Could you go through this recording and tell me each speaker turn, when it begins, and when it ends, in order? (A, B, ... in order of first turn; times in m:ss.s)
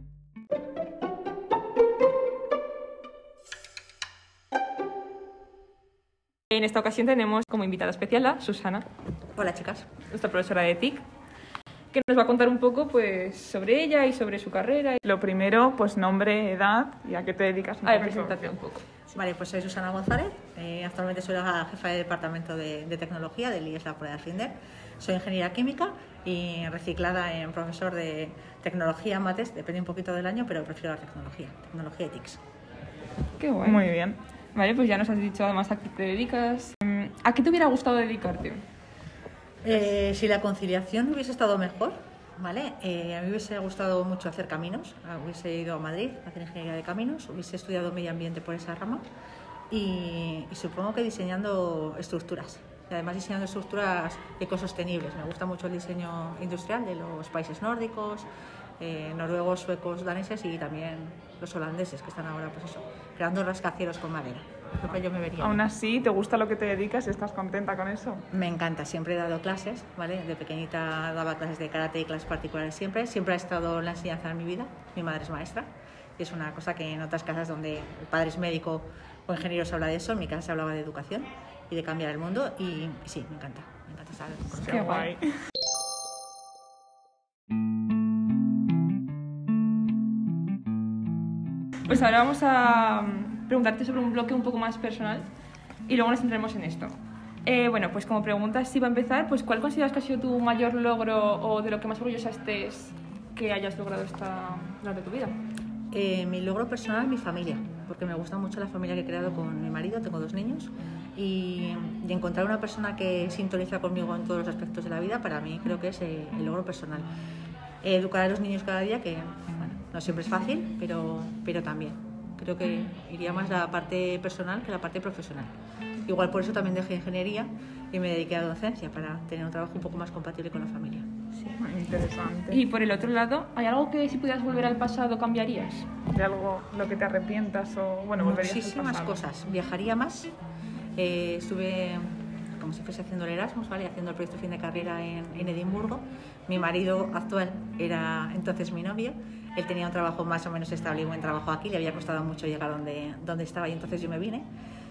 0:06.5-0:08.8 A
0:09.3-0:09.9 B
0:10.1-0:11.0 A
0:11.9-0:15.0 A
0:15.0-0:18.4 C
0:17.8-0:18.8 A
0:19.1-0:32.4 B
0:33.4-0:33.9 A
0:33.6-0:34.2 C
0:34.5-0:38.6 A
0:39.6-0:49.0 B
0:49.7-0:58.3 B
0:58.8-1:05.6 B
1:05.4-1:08.2 C
1:08.3-1:25.0 B
1:24.5-1:25.3 C
1:24.6-1:25.2 A
1:31.8-1:35.3 A
1:35.9-1:36.9 A
1:37.4-1:45.4 A
1:45.9-1:57.1 B
1:57.8-2:05.5 B
2:06.0-2:11.1 B
2:11.6-2:12.6 C
2:12.5-2:15.9 A
2:16.1-2:19.2 C
2:18.2-2:20.3 B
2:21.0-2:34.4 B